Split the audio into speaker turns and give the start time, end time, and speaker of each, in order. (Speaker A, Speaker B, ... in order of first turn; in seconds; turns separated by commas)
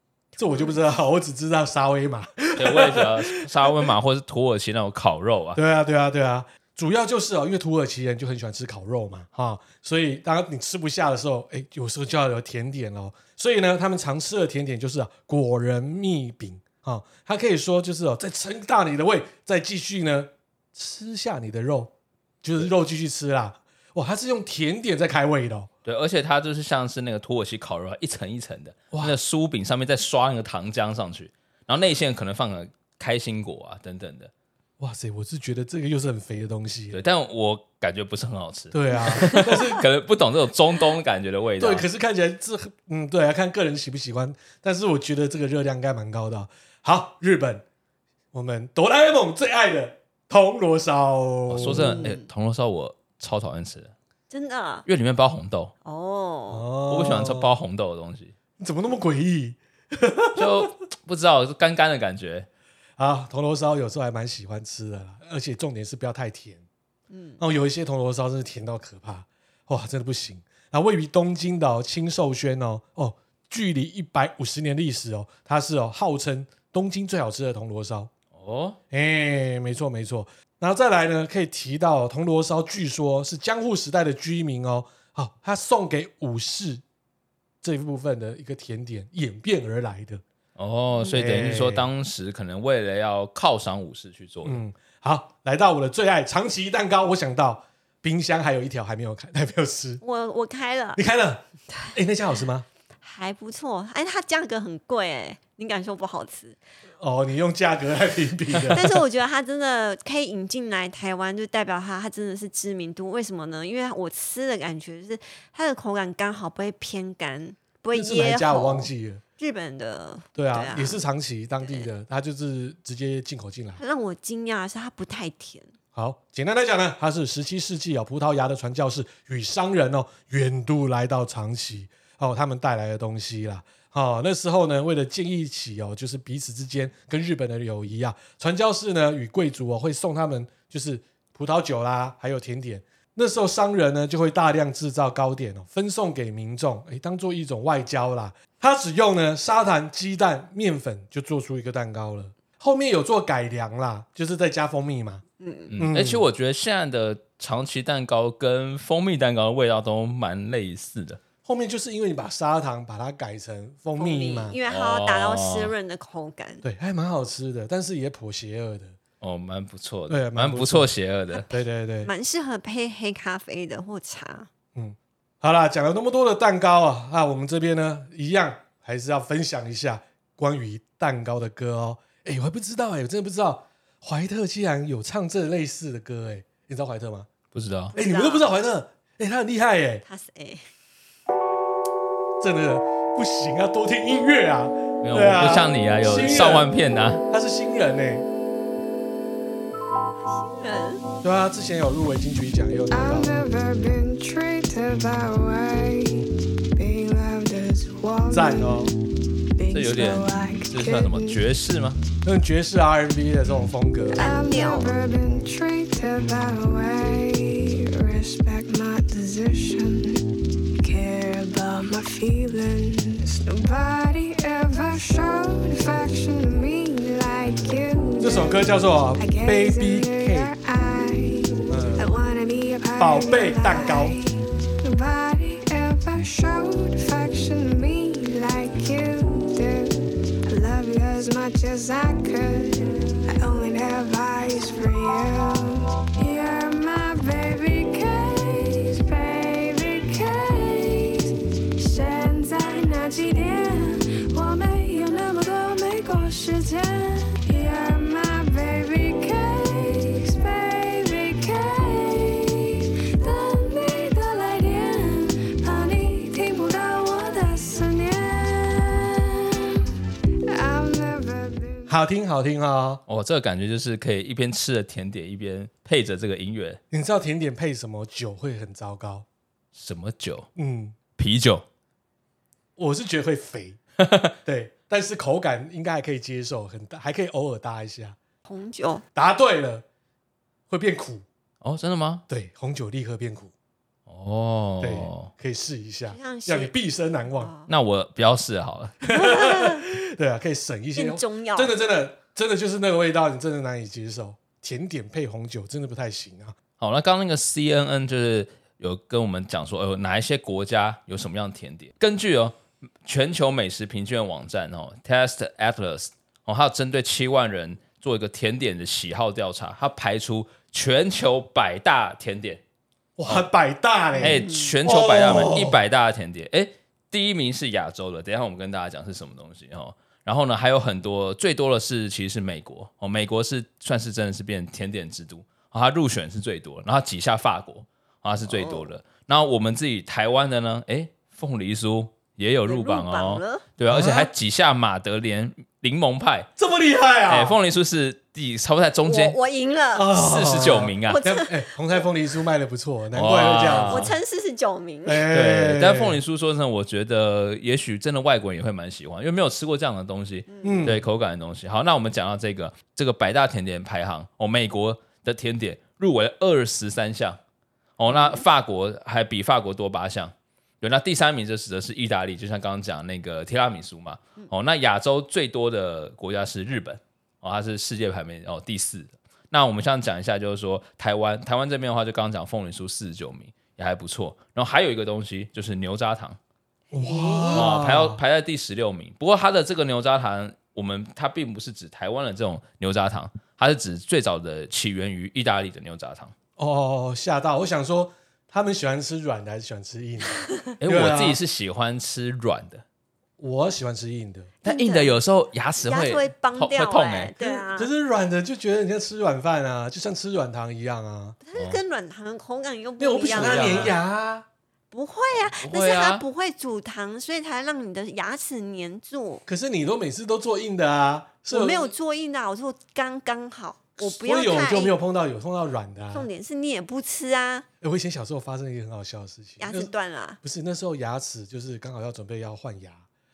Speaker A: 0.4-0.8, Speaker B: 0.4-3.9, Speaker C: 2.6-5.6, Speaker B: 5.5-21.9, Speaker B: 22.4-25.7, Speaker C: 25.9-34.3, Speaker B: 34.8-37.0, Speaker C: 36.9-41.9, Speaker B: 38.7-39.8, Speaker B: 41.6-47.6, Speaker B: 48.3-52.1, Speaker C: 51.5-53.9, Speaker A: 51.7-52.3, Speaker A: 54.3-54.9, Speaker C: 54.9-55.7, Speaker A: 55.9-56.7, Speaker B: 56.5-57.5, Speaker C: 56.9-58.3, Speaker B: 58.6-60.7, Speaker C: 60.4-62.5, Speaker B: 63.0-66.6, Speaker A: 67.1-67.4, Speaker B: 67.4-78.1, Speaker C: 78.3-78.8, Speaker B: 78.9-86.8, Speaker B: 87.6-90.2, Speaker C: 90.6-94.6, Speaker B: 91.1-91.9, Speaker B: 94.5-100.0, Speaker A: 100.0-101.0, Speaker B: 101.0-101.4, Speaker B: 101.9-102.7, Speaker A: 103.0-106.6, Speaker B: 107.0-109.0, Speaker A: 108.7-121.0, Speaker B: 117.9-119.2, Speaker B: 120.4-123.8, Speaker A: 121.6-121.9, Speaker A: 123.8-125.7, Speaker B: 126.0-155.2, Speaker A: 155.4-155.8, Speaker C: 155.7-161.2, Speaker B: 155.8-156.3, Speaker B: 161.4-164.6, Speaker A: 164.0-166.6, Speaker C: 164.7-165.7, Speaker B: 166.6-169.0, Speaker C: 169.2-171.5, Speaker B: 170.1-170.9, Speaker A: 171.3-174.5, Speaker B: 171.5-172.1, Speaker B: 174.8-187.3, Speaker C: 187.5-187.9, Speaker A: 187.9-188.5, Speaker B: 187.9-190.0, Speaker A: 190.1-190.7, Speaker B: 192.4-196.7, Speaker C: 195.0-197.2, Speaker B: 197.3-198.3, Speaker A: 200.2-201.0, Speaker B: 201.2-203.3, Speaker D: 202.9-209.0, Speaker B: 208.3-208.9, Speaker D: 209.6-211.4, Speaker C: 209.7-212.0, Speaker B: 212.2-214.3, Speaker D: 214.1-220.2, Speaker A: 214.2-215.0, Speaker B: 215.3-215.5, Speaker D: 220.8-269.8, Speaker B: 228.2-230.5, Speaker B: 231.7-232.1, Speaker B: 233.0-234.2, Speaker D: 270.5-271.9, Speaker B: 271.9-273.0, Speaker C: 273.1-276.8, Speaker B: 276.9-279.3, Speaker C: 279.8-280.5, Speaker B: 280.6-281.0, Speaker C: 281.2-281.6, Speaker B: 282.8-283.8, Speaker C: 284.0-284.3, Speaker B: 284.4-288.2, Speaker A: 288.5-289.0, Speaker B: 289.1-289.9, Speaker B: 290.7-291.2, Speaker C: 291.6-292.2, Speaker B: 292.3-293.5, Speaker C: 294.1-295.3, Speaker B: 294.8-297.5, Speaker A: 296.1-296.7, Speaker A: 297.4-297.7, Speaker C: 297.7-299.0, Speaker B: 299.0-306.6, Speaker A: 299.1-299.8, Speaker A: 301.0-301.7, Speaker C: 306.8-322.6, Speaker B: 323.2-325.8, Speaker A: 324.2-324.7, Speaker C: 324.2-346.5, Speaker A: 338.5-338.9, Speaker A: 342.7-343.6, Speaker B: 343.9-344.3, Speaker B: 346.6-347.6, Speaker C: 347.3-349.4, Speaker A: 349.1-350.1, Speaker B: 349.9-354.1, Speaker C: 350.1-351.2, Speaker A: 351.1-351.6, Speaker C: 353.1-354.1, Speaker A: 353.9-355.3, Speaker B: 355.1-356.2, Speaker C: 355.3-367.4, Speaker A: 360.5-360.9, Speaker B: 360.6-361.0, Speaker C: 368.0-386.4, Speaker A: 368.1-368.4, Speaker B: 386.9-388.2, Speaker A: 387.1-387.7, Speaker C: 387.5-396.3, Speaker B: 396.6-401.4, Speaker C: 400.8-402.8, Speaker B: 403.4-404.5, Speaker C: 404.6-407.3, Speaker A: 404.6-405.2, Speaker A: 405.8-407.9, Speaker B: 407.4-411.4, Speaker A: 411.4-413.9, Speaker B: 413.0-414.5, Speaker C: 413.3-413.9, Speaker A: 414.9-419.4, Speaker C: 415.6-416.2, Speaker B: 419.5-421.9, Speaker A: 421.5-425.0, Speaker B: 424.0-426.3, Speaker A: 426.1-427.7, Speaker B: 427.8-429.9, Speaker A: 429.6-430.4, Speaker B: 430.4-433.0